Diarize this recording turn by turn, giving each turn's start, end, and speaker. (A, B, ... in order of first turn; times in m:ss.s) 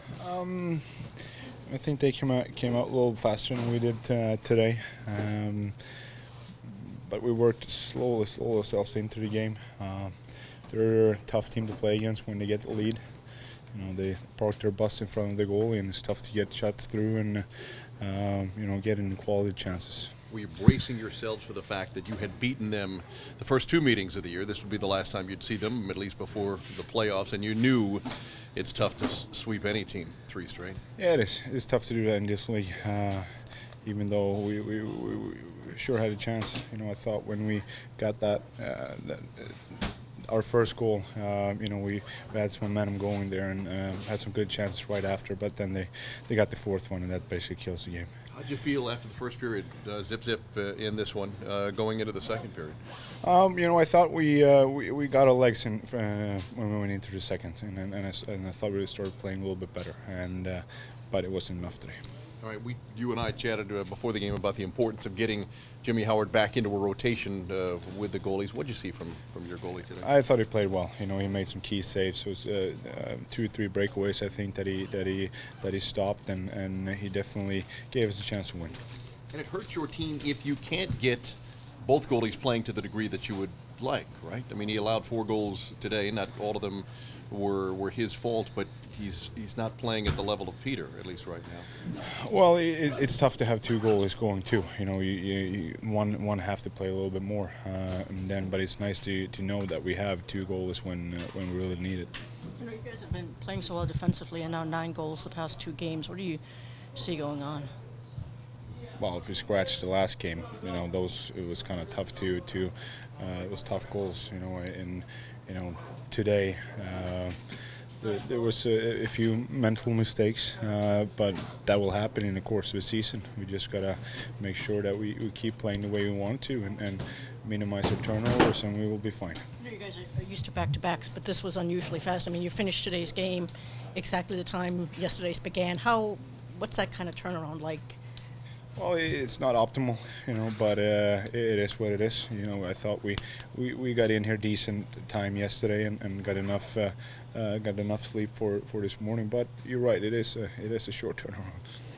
0:00.2-0:20.2 A
0:20.3-0:30.8 B
0:31.0-0:48.1 A
0:48.3-0:52.8 B
0:53.2-1:02.0 A
1:02.4-1:10.1 B
1:10.0-1:18.8 A
1:19.3-1:31.7 B
1:32.0-1:42.2 A
1:42.6-1:46.4 C
1:46.9-1:47.7 C
1:49.0-2:09.4 A
2:09.6-2:18.0 C
2:18.8-2:31.8 A